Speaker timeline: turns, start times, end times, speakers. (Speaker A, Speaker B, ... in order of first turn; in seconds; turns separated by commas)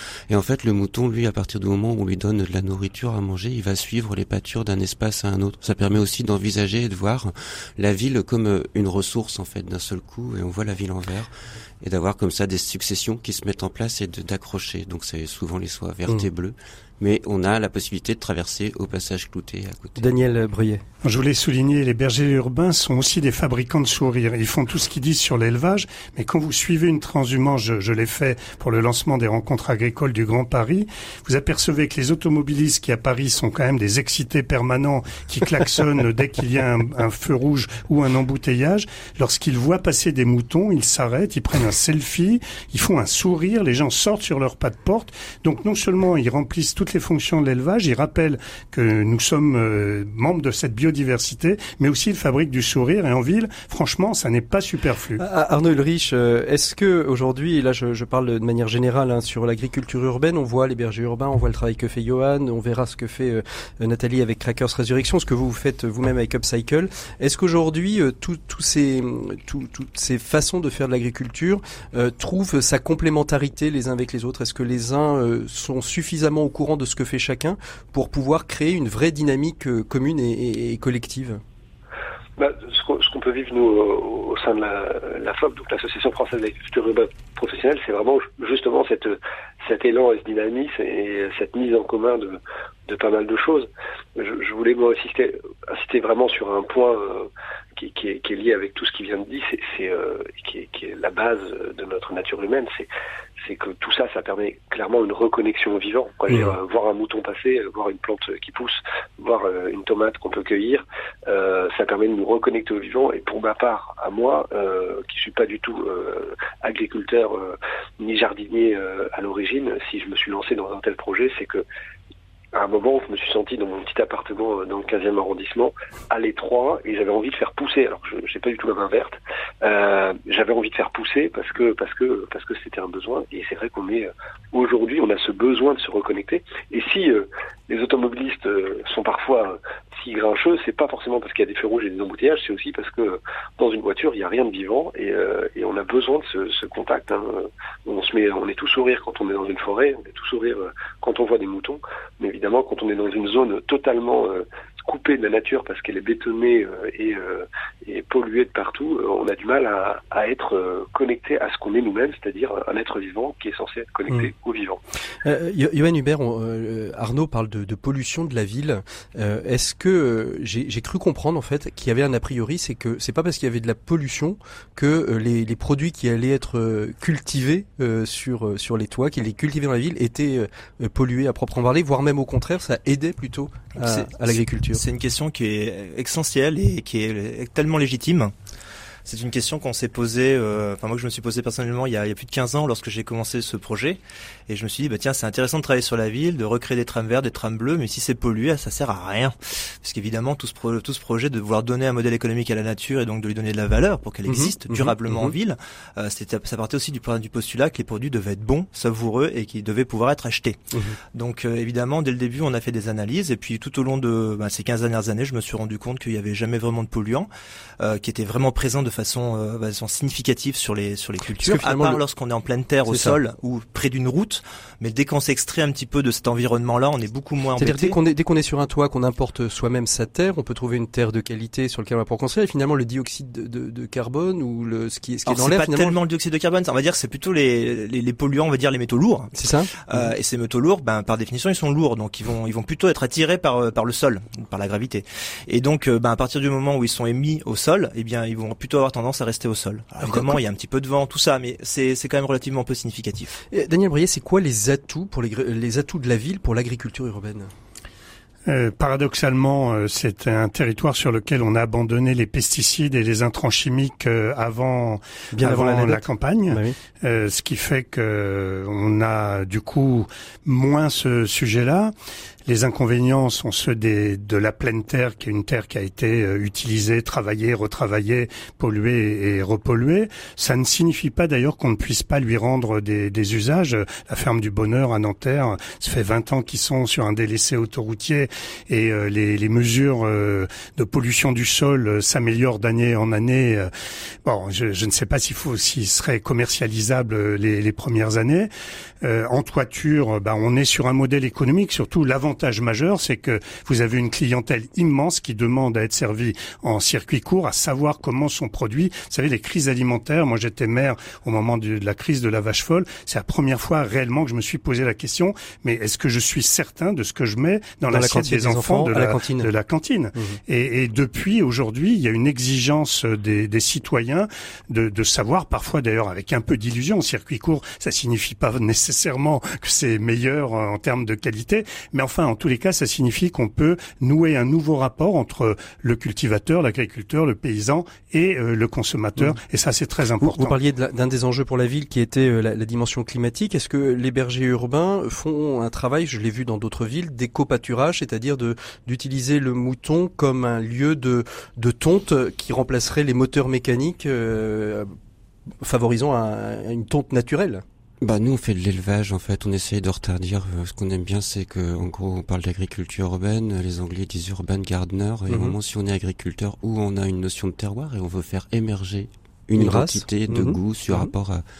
Speaker A: 0.3-20.0, Speaker B: 20.0-20.8, Speaker C: 21.0-55.2, Speaker B: 55.2-81.4, Speaker D: 82.4-102.9, Speaker D: 103.4-121.6, Speaker D: 122.5-164.8, Speaker B: 165.2-184.8, Speaker E: 183.8-188.3, Speaker E: 189.0-210.6, Speaker B: 204.3-205.3, Speaker E: 211.1-217.3, Speaker E: 217.8-227.9, Speaker B: 221.4-222.0, Speaker B: 222.9-223.2, Speaker B: 227.6-235.9, Speaker E: 235.3-253.4, Speaker B: 239.4-240.0, Speaker B: 250.0-250.4, Speaker B: 253.5-257.5, Speaker C: 258.5-271.9, Speaker B: 265.3-266.8, Speaker C: 272.5-293.7, Speaker C: 294.2-298.5, Speaker C: 299.0-340.5, Speaker B: 317.9-319.5, Speaker B: 340.2-354.9, Speaker B: 355.6-357.6, Speaker A: 358.0-371.4, Speaker B: 365.3-365.6, Speaker B: 369.6-371.1